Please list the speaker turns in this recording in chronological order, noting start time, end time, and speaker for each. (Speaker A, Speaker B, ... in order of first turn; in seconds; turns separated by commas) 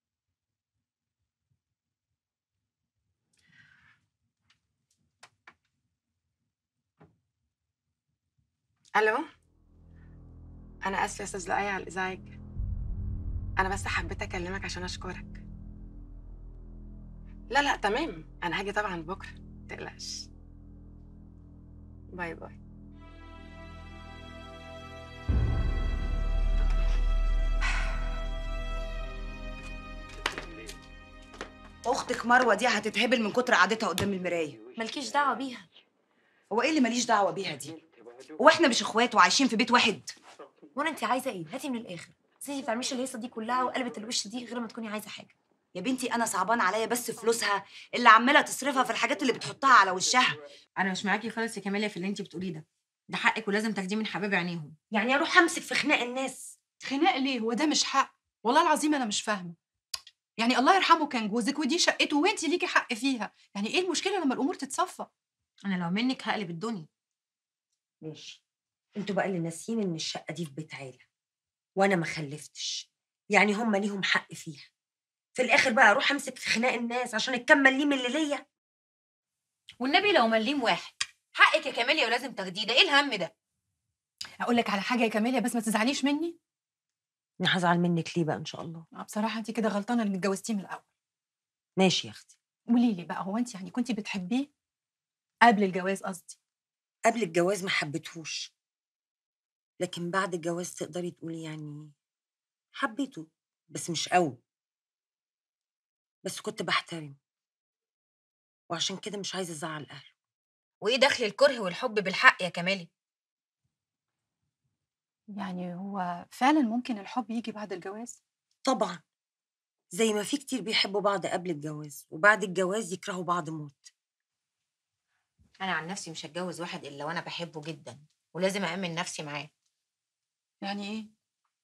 Speaker A: 9.0-9.2, Speaker A: 10.8-12.3, Speaker A: 13.6-15.4, Speaker A: 17.5-20.3, Speaker A: 22.1-22.6, Speaker B: 31.9-34.6, Speaker C: 34.8-35.6, Speaker B: 36.5-37.7, Speaker B: 38.4-40.1, Speaker D: 40.8-45.3, Speaker B: 45.8-50.4, Speaker C: 50.8-54.7, Speaker D: 54.9-56.5, Speaker E: 56.8-59.5, Speaker E: 60.4-65.1, Speaker C: 65.7-66.9, Speaker D: 68.0-68.4, Speaker D: 69.0-71.0, Speaker D: 71.8-74.7, Speaker D: 75.4-78.4, Speaker C: 79.8-83.3, Speaker E: 84.4-86.3, Speaker D: 87.4-88.8, Speaker E: 89.0-90.9, Speaker D: 91.8-92.3, Speaker E: 92.7-94.5, Speaker E: 95.5-96.4, Speaker D: 97.0-98.5, Speaker D: 99.8-101.9, Speaker D: 102.8-104.4, Speaker D: 106.2-107.2, Speaker D: 108.7-110.1, Speaker C: 110.8-112.9, Speaker E: 115.3-118.2, Speaker D: 118.7-119.0, Speaker D: 119.9-123.9, Speaker C: 125.6-129.5, Speaker E: 130.6-131.1